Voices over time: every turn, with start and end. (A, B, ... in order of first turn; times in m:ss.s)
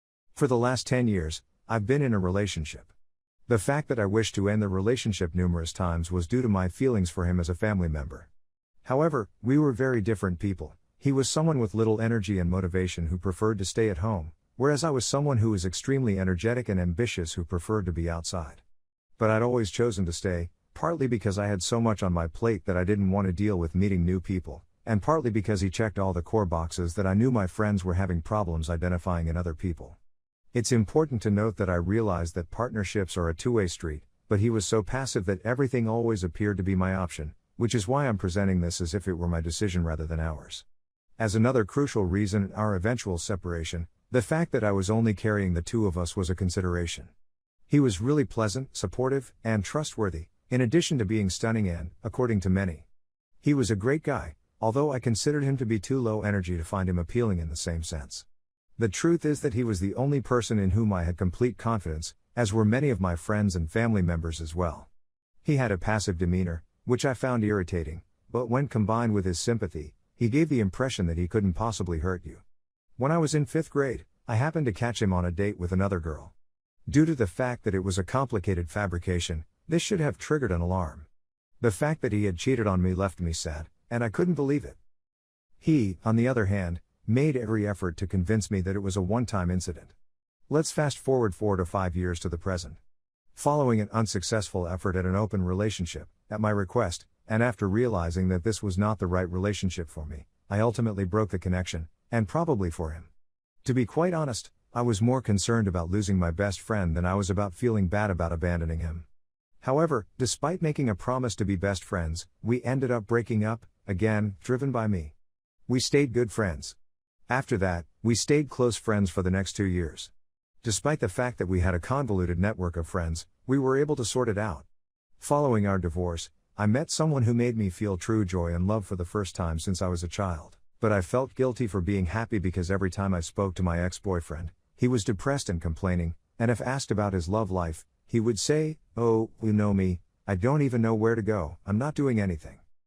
0:00.4-0:02.9 A
0:03.5-0:08.3 A
0:08.8-0:18.6 A
0:19.2-0:30.0 A
0:30.5-0:40.6 A
0:41.2-0:47.1 A
0:47.7-0:52.8 A
0:53.4-0:58.3 A
0:58.8-1:04.9 A
1:05.4-1:12.4 A
1:13.0-1:16.3 A
1:16.9-1:21.1 A
1:21.6-1:24.8 A
1:25.6-1:29.9 A
1:30.5-1:32.8 A
1:33.3-1:43.1 A
1:43.6-1:49.1 A
1:49.6-1:55.1 A
1:55.7-1:56.8 A
1:57.3-2:00.1 A
2:00.6-2:04.7 A
2:05.2-2:22.6 A